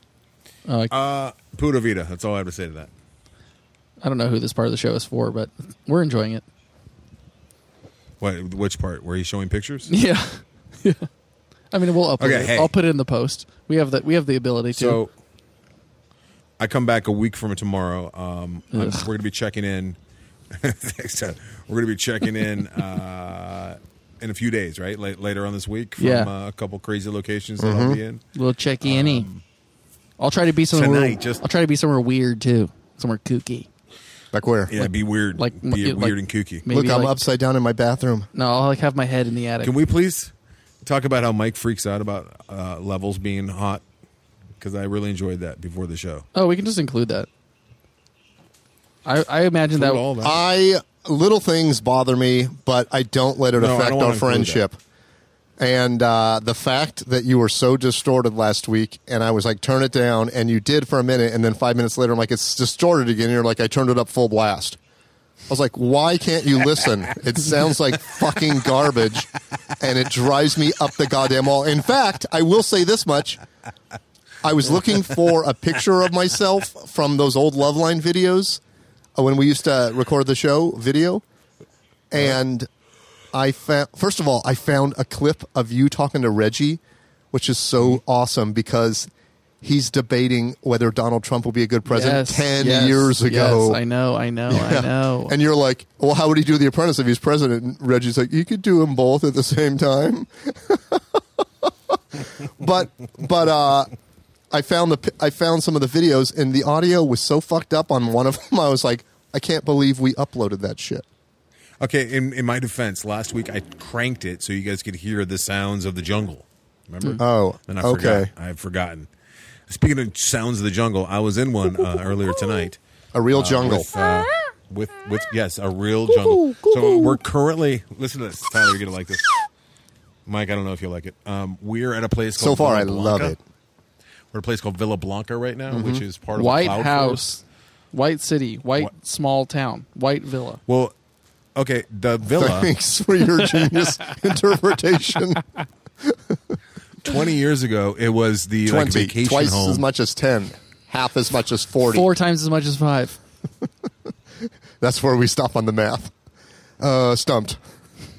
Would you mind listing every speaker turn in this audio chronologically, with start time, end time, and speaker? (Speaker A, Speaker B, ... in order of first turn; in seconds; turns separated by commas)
Speaker A: 0.7-0.9, Speaker B: 0.9-2.9, Speaker A: 4.0-6.4, Speaker B: 8.2-9.9, Speaker A: 9.9-11.1, Speaker A: 11.7-15.0, Speaker B: 12.2-12.7, Speaker B: 14.7-15.1, Speaker B: 16.6-20.0, Speaker A: 18.7-19.1, Speaker B: 20.5-28.2, Speaker A: 26.0-26.3, Speaker C: 27.6-28.0, Speaker A: 28.3-29.3, Speaker B: 28.8-29.4, Speaker A: 30.2-33.7, Speaker B: 30.7-31.4, Speaker C: 34.3-34.8, Speaker B: 34.7-36.6, Speaker A: 34.8-37.2, Speaker C: 36.7-38.3, Speaker A: 38.3-39.7, Speaker B: 39.6-40.3, Speaker B: 40.8-43.8, Speaker B: 44.6-46.2, Speaker A: 46.3-47.3, Speaker A: 49.0-50.0, Speaker B: 49.7-50.4, Speaker C: 50.2-54.8, Speaker B: 53.5-54.6, Speaker C: 55.6-64.8, Speaker C: 65.5-69.3, Speaker C: 69.8-73.4, Speaker C: 74.4-78.6, Speaker C: 79.2-81.2, Speaker C: 82.1-82.7, Speaker C: 83.3-86.8, Speaker C: 87.3-89.1, Speaker C: 89.6-93.8, Speaker A: 91.8-95.3, Speaker C: 94.5-101.0, Speaker C: 102.5-103.9, Speaker C: 104.5-111.0, Speaker B: 111.8-119.1, Speaker C: 117.2-118.3, Speaker B: 119.7-122.8, Speaker C: 123.1-123.9, Speaker B: 123.3-129.3, Speaker B: 130.2-133.4, Speaker C: 132.4-133.4, Speaker B: 134.3-137.2, Speaker C: 135.7-136.0, Speaker A: 136.3-140.6, Speaker B: 140.7-140.9, Speaker B: 141.6-142.7, Speaker C: 142.3-145.4, Speaker A: 143.4-144.1, Speaker B: 147.0-149.8, Speaker C: 148.6-152.1, Speaker A: 151.9-153.2, Speaker C: 154.8-156.1, Speaker C: 156.8-157.6